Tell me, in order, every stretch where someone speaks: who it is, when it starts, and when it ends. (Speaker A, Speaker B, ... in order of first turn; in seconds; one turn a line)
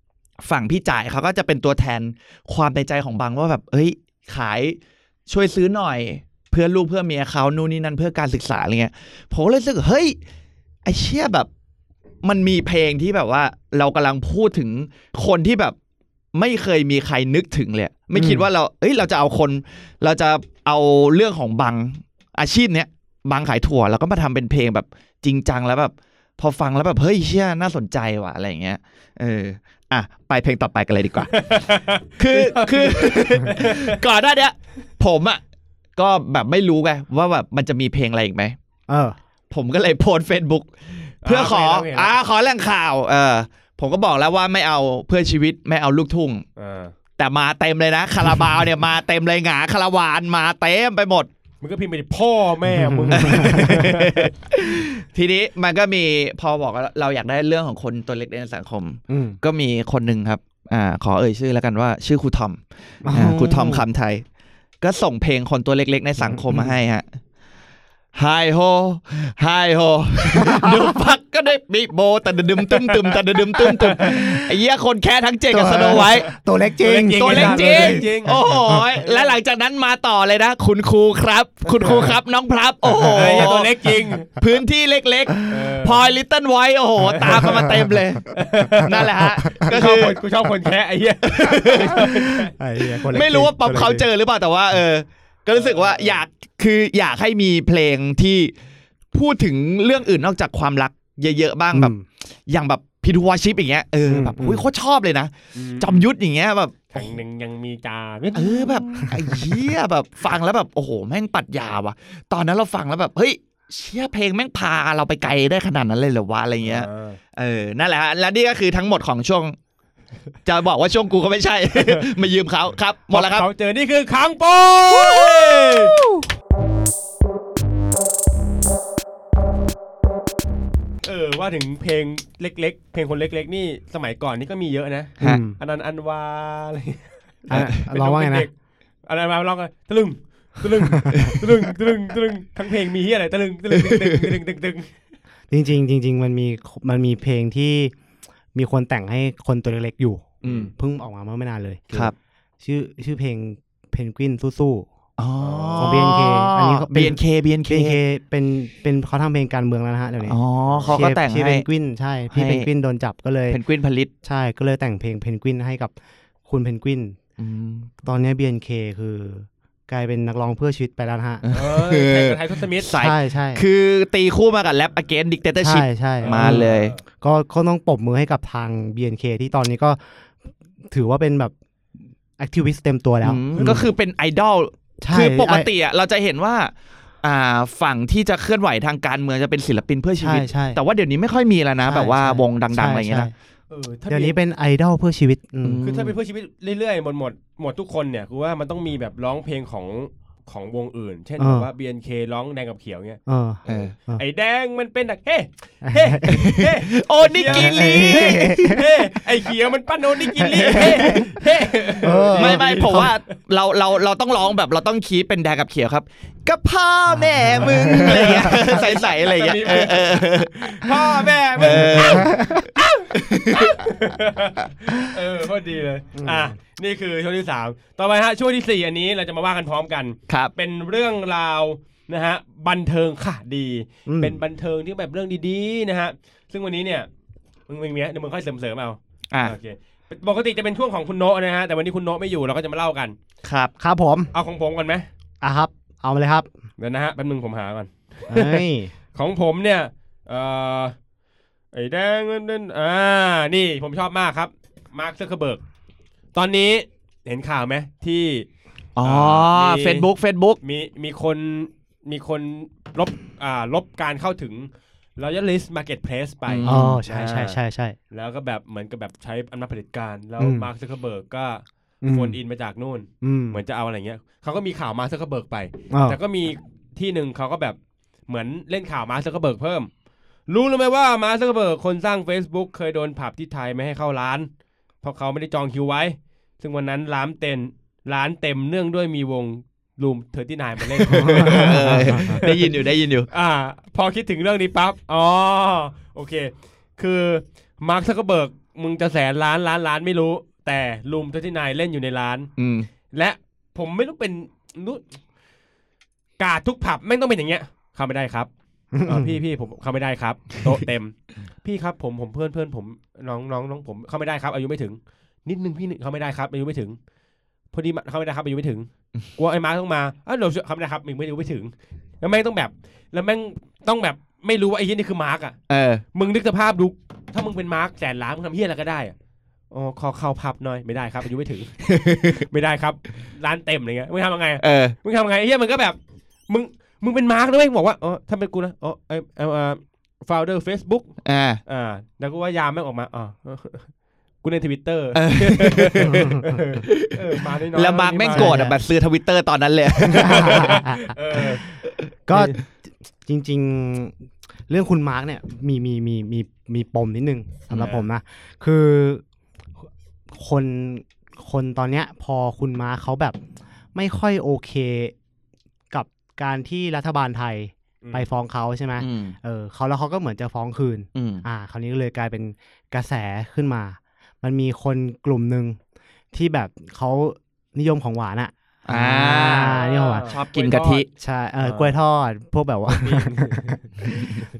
Speaker A: 0.4-10.2
Speaker A: 10.8-11.5
Speaker A: 12.2-15.8
Speaker A: 16.3-31.5
Speaker B: 18.1-18.5
Speaker C: 31.3-34.0
Speaker A: 32.2-35.4
Speaker A: 36.0-38.6
Speaker B: 38.9-39.2
Speaker A: 39.5-46.4
Speaker C: 41.2-42.1
Speaker C: 46.6-46.9
Speaker A: 47.2-51.3
Speaker C: 51.6-54.3
Speaker B: 52.7-53.8
Speaker A: 53.1-64.2
Speaker B: 59.1-59.4
Speaker B: 63.0-63.9
Speaker A: 64.8-67.0
Speaker B: 66.3-66.7
Speaker A: 68.2-76.3
Speaker B: 70.3-71.0
Speaker C: 73.6-74.1
Speaker B: 74.0-74.3
Speaker B: 75.5-78.9
Speaker C: 76.8-78.4
Speaker A: 77.2-83.7
Speaker C: 79.0-79.4
Speaker C: 81.7-82.1
Speaker B: 82.9-83.6
Speaker C: 83.2-84.3
Speaker A: 84.4-88.3
Speaker C: 85.5-86.0
Speaker B: 87.2-88.0
Speaker C: 88.3-92.5
Speaker A: 88.8-90.2
Speaker A: 91.3-92.0
Speaker B: 91.9-94.0
Speaker A: 93.1-98.5
Speaker C: 95.5-96.2
Speaker A: 99.1-102.0
Speaker B: 101.7-102.0
Speaker A: 102.5-107.1
Speaker B: 104.1-104.7
Speaker C: 105.5-106.1
Speaker C: 106.9-108.8
Speaker A: 108.3-119.6
Speaker B: 109.0-109.5
Speaker C: 116.6-117.2
Speaker A: 120.5-123.5
Speaker C: 121.7-122.1
Speaker C: 123.1-126.0
Speaker C: 131.0-138.5
Speaker B: 135.2-135.6
Speaker B: 137.5-138.5
Speaker C: 139.1-144.9
Speaker B: 140.9-141.3
Speaker B: 145.5-147.9
Speaker B: 148.5-154.9
Speaker A: 150.4-150.7
Speaker A: 155.2-158.0
Speaker C: 155.4-156.0
Speaker B: 155.8-160.4
Speaker A: 160.3-161.7
Speaker C: 160.7-161.0
Speaker B: 160.9-163.6
Speaker A: 162.3-162.7
Speaker A: 163.5-164.1
Speaker B: 164.2-165.9
Speaker B: 166.5-167.2
Speaker A: 167.4-167.9
Speaker B: 168.0-171.4
Speaker A: 171.4-176.9
Speaker C: 171.5-172.9
Speaker B: 173.0-173.6
Speaker B: 175.6-180.0
Speaker C: 176.2-177.0
Speaker B: 180.9-181.5
Speaker B: 182.4-183.9
Speaker A: 183.2-186.7
Speaker B: 185.0-185.7
Speaker A: 187.2-193.3
Speaker B: 190.2-190.8
Speaker B: 191.8-193.3
Speaker C: 193.7-194.4
Speaker B: 194.1-195.8
Speaker A: 195.6-196.2
Speaker C: 195.8-213.3
Speaker B: 201.4-201.7
Speaker B: 203.3-204.2
Speaker A: 203.7-203.9
Speaker B: 205.8-206.5
Speaker A: 206.3-208.8
Speaker B: 207.5-208.9
Speaker B: 210.4-211.4
Speaker A: 210.6-211.2
Speaker B: 212.0-213.1
Speaker A: 212.3-220.9
Speaker B: 217.1-218.8
Speaker C: 217.9-237.1
Speaker A: 221.6-222.6
Speaker B: 221.6-222.7
Speaker A: 223.1-223.8
Speaker B: 226.2-226.5
Speaker B: 234.1-234.4
Speaker C: 237.7-243.2
Speaker A: 243.4-243.7
Speaker B: 243.8-244.3
Speaker C: 244.3-245.1
Speaker B: 245.4-246.5
Speaker C: 246.8-248.6
Speaker B: 248.3-248.9
Speaker C: 249.2-250.9
Speaker C: 251.7-255.6
Speaker C: 256.4-258.5
Speaker A: 259.0-260.6
Speaker C: 259.0-260.1
Speaker C: 260.6-267.6
Speaker A: 266.5-267.0
Speaker B: 266.6-268.0
Speaker C: 268.1-279.9
Speaker B: 270.4-270.7
Speaker B: 272.0-272.4
Speaker B: 273.2-273.6
Speaker B: 275.9-276.2
Speaker C: 280.5-284.5
Speaker C: 285.0-292.7
Speaker A: 291.1-293.3
Speaker B: 291.1-292.3
Speaker C: 293.3-302.5
Speaker A: 302.6-302.9
Speaker C: 303.1-305.0
Speaker C: 306.4-308.5
Speaker B: 308.9-309.4
Speaker C: 309.1-317.0
Speaker C: 317.7-325.6
Speaker A: 325.7-326.0
Speaker C: 326.1-329.1
Speaker C: 329.7-331.8
Speaker A: 331.9-332.5
Speaker C: 332.4-336.0
Speaker A: 334.6-335.0
Speaker C: 336.5-341.1
Speaker A: 341.2-341.6
Speaker C: 341.7-343.9
Speaker C: 344.4-348.6
Speaker A: 345.1-346.3
Speaker B: 346.0-346.6
Speaker A: 346.8-347.2
Speaker A: 347.7-350.7
Speaker B: 348.3-348.8
Speaker B: 350.0-351.1
Speaker C: 350.0-351.6
Speaker B: 352.3-352.7
Speaker C: 352.3-352.6
Speaker B: 353.2-354.1
Speaker B: 354.7-359.2
Speaker C: 357.7-358.1
Speaker B: 360.3-363.4
Speaker B: 363.9-365.1
Speaker B: 365.9-375.8
Speaker C: 368.0-368.3
Speaker A: 369.0-369.4
Speaker A: 371.2-371.4
Speaker B: 376.3-380.3
Speaker A: 378.9-381.1
Speaker C: 379.3-381.1
Speaker B: 381.2-384.1
Speaker C: 381.6-382.0
Speaker C: 382.9-383.9